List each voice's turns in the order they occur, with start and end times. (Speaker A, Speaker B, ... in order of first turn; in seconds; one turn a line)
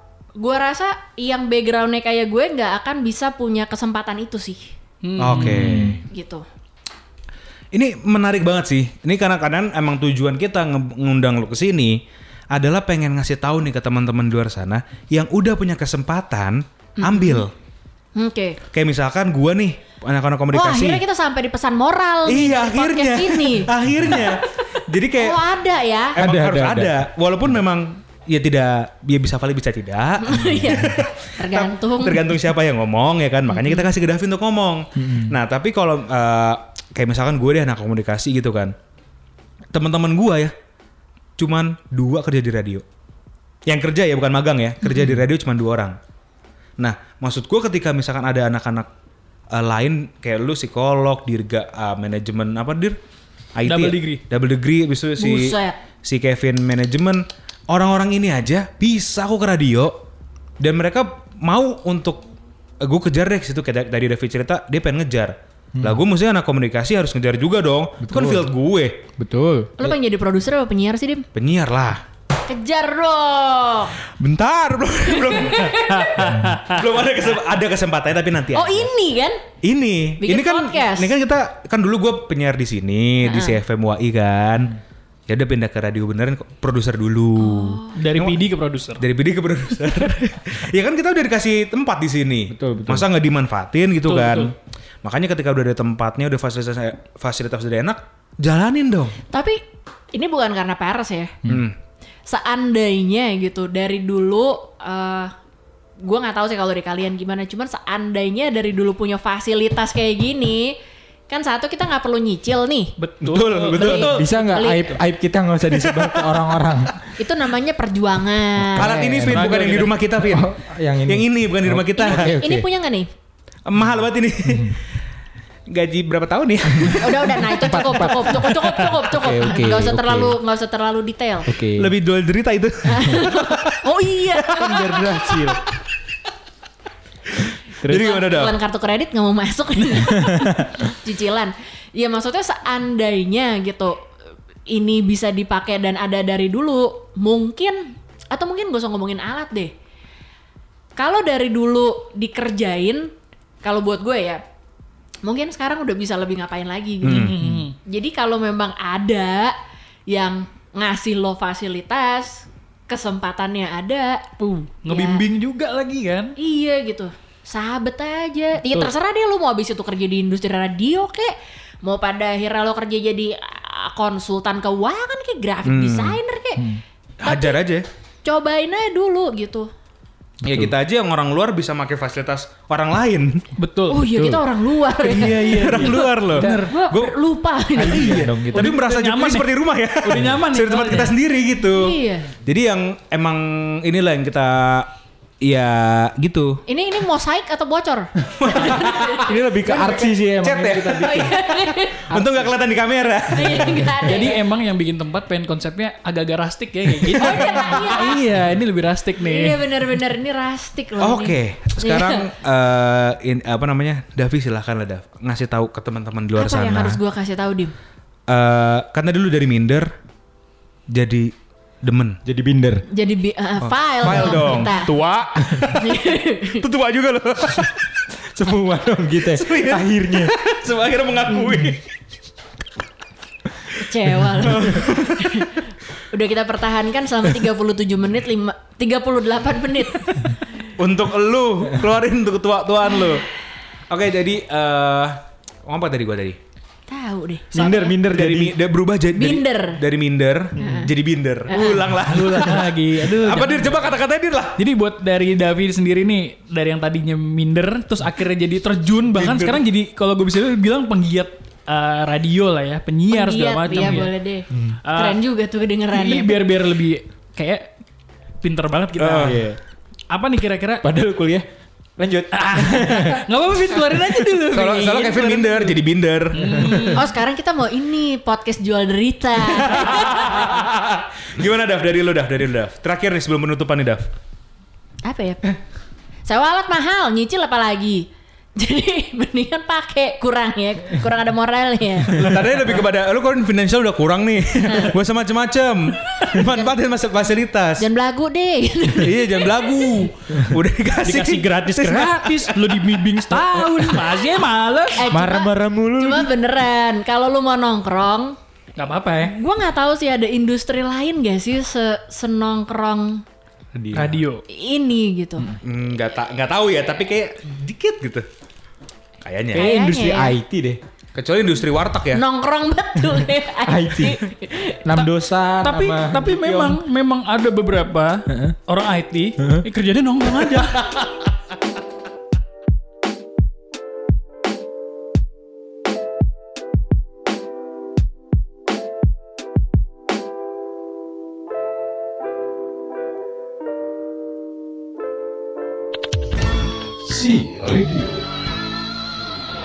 Speaker A: 0.4-4.7
Speaker B: 5.0-5.9
Speaker C: 5.2-6.0
Speaker D: 5.4-6.0
Speaker A: 6.0-6.5
Speaker C: 7.7-17.5
Speaker A: 17.0-17.5
Speaker A: 18.1-18.6
Speaker C: 18.7-21.0
Speaker A: 20.5-24.6
Speaker C: 22.2-25.4
Speaker A: 25.1-26.2
Speaker D: 26.1-27.1
Speaker C: 26.1-38.7
Speaker A: 30.2-32.3
Speaker A: 33.5-33.9
Speaker D: 35.0-35.4
Speaker C: 39.7-40.5
Speaker C: 41.4-42.8
Speaker C: 43.6-46.0
Speaker D: 44.9-45.2
Speaker C: 46.8-48.9
Speaker C: 49.5-53.0
Speaker C: 53.5-60.0
Speaker B: 53.6-54.2
Speaker A: 55.2-55.8
Speaker C: 60.6-62.3
Speaker C: 62.8-69.0
Speaker D: 68.0-68.5
Speaker D: 69.2-69.9
Speaker A: 69.8-71.2
Speaker C: 71.3-72.0
Speaker A: 72.5-74.0
Speaker C: 74.2-78.9
Speaker A: 75.1-76.4
Speaker B: 75.9-76.8
Speaker A: 78.5-79.4
Speaker C: 79.6-84.8
Speaker A: 80.2-81.2
Speaker A: 83.2-83.6
Speaker C: 85.3-88.4
Speaker A: 87.4-88.0
Speaker B: 87.9-89.0
Speaker C: 89.0-99.2
Speaker D: 92.5-93.1
Speaker B: 94.0-94.5
Speaker A: 99.3-99.6
Speaker A: 100.1-101.3
Speaker C: 101.5-101.8
Speaker A: 102.3-105.3
Speaker A: 106.0-110.8
Speaker A: 111.3-113.0
Speaker B: 113.0-114.0
Speaker C: 113.2-114.3
Speaker A: 113.7-115.0
Speaker D: 113.8-117.0
Speaker C: 115.7-116.4
Speaker A: 117.2-119.0
Speaker D: 118.6-122.7
Speaker C: 118.8-120.5
Speaker B: 119.2-119.9
Speaker C: 121.0-122.4
Speaker A: 122.0-123.1
Speaker C: 123.7-124.8
Speaker C: 125.7-127.8
Speaker A: 126.9-131.5
Speaker D: 127.5-130.4
Speaker C: 128.3-128.9
Speaker D: 131.4-131.9
Speaker C: 131.8-133.8
Speaker A: 132.8-135.3
Speaker C: 134.4-134.9
Speaker D: 134.6-135.6
Speaker D: 137.8-138.1
Speaker C: 137.8-138.6
Speaker A: 137.9-144.1
Speaker D: 140.1-140.7
Speaker A: 144.7-149.7
Speaker A: 150.9-153.1
Speaker A: 153.6-154.4
Speaker A: 155.2-157.3
Speaker C: 157.0-157.3
Speaker B: 157.0-157.8
Speaker D: 157.4-157.7
Speaker A: 157.8-159.6
Speaker A: 160.1-164.2
Speaker B: 164.4-166.3
Speaker A: 164.9-165.2
Speaker A: 166.4-177.6
Speaker B: 168.6-168.9
Speaker C: 175.6-176.2
Speaker C: 177.2-177.8
Speaker A: 178.2-179.7
Speaker D: 180.4-180.7
Speaker C: 180.4-183.4
Speaker B: 183.6-184.4
Speaker A: 183.9-185.7
Speaker B: 185.0-186.7
Speaker C: 185.0-187.2
Speaker D: 185.7-186.6
Speaker A: 186.6-188.3
Speaker D: 187.7-188.8
Speaker C: 187.8-196.6
Speaker B: 188.5-191.1
Speaker A: 191.7-192.3
Speaker A: 196.7-200.1
Speaker C: 198.3-199.4
Speaker D: 199.2-201.4
Speaker C: 200.4-201.4
Speaker A: 201.0-202.0
Speaker D: 202.1-202.5
Speaker C: 202.1-203.9
Speaker A: 203.3-204.4
Speaker B: 204.0-209.6
Speaker A: 207.2-208.2
Speaker C: 207.2-207.8
Speaker A: 209.2-212.3
Speaker C: 211.0-217.0
Speaker A: 216.3-217.7
Speaker C: 218.3-219.9
Speaker C: 220.9-222.2
Speaker D: 222.2-222.8
Speaker A: 222.9-224.9
Speaker C: 223.6-227.8
Speaker A: 225.7-226.6
Speaker D: 228.3-230.3
Speaker C: 229.3-231.8
Speaker A: 233.8-240.4
Speaker C: 234.3-235.5
Speaker C: 240.8-243.3
Speaker C: 243.9-246.4
Speaker A: 246.9-248.0
Speaker D: 247.5-248.6
Speaker C: 247.8-254.6
Speaker A: 249.1-249.8
Speaker A: 250.6-250.9
Speaker A: 251.5-252.0
Speaker B: 252.0-253.9
Speaker B: 254.6-264.1
Speaker C: 259.1-259.6
Speaker A: 263.1-266.4
Speaker D: 264.5-264.8
Speaker B: 264.8-265.2
Speaker B: 265.9-267.7
Speaker B: 268.4-269.4
Speaker C: 269.0-269.5
Speaker D: 269.2-269.6
Speaker B: 270.1-270.8
Speaker D: 270.8-271.4
Speaker D: 272.0-273.2
Speaker B: 272.3-277.1
Speaker C: 274.5-276.9
Speaker D: 276.4-276.9
Speaker A: 276.9-280.6
Speaker C: 279.6-284.1
Speaker A: 285.0-285.6
Speaker A: 286.2-292.4
Speaker C: 292.1-297.9
Speaker A: 294.6-294.9
Speaker A: 296.2-296.7
Speaker A: 297.8-299.9
Speaker C: 298.9-303.8
Speaker B: 301.0-305.1
Speaker A: 305.0-308.4
Speaker D: 305.1-306.3
Speaker B: 308.8-309.4
Speaker A: 309.2-313.2
Speaker D: 313.7-314.2
Speaker B: 313.9-314.4
Speaker A: 314.5-315.6
Speaker C: 315.6-318.3
Speaker C: 319.2-319.7
Speaker A: 319.5-320.4
Speaker D: 319.5-320.8
Speaker C: 321.1-322.2
Speaker A: 322.1-324.9
Speaker D: 323.6-324.2
Speaker D: 324.8-326.8
Speaker B: 325.6-331.2
Speaker D: 328.3-328.6
Speaker D: 347.1-348.2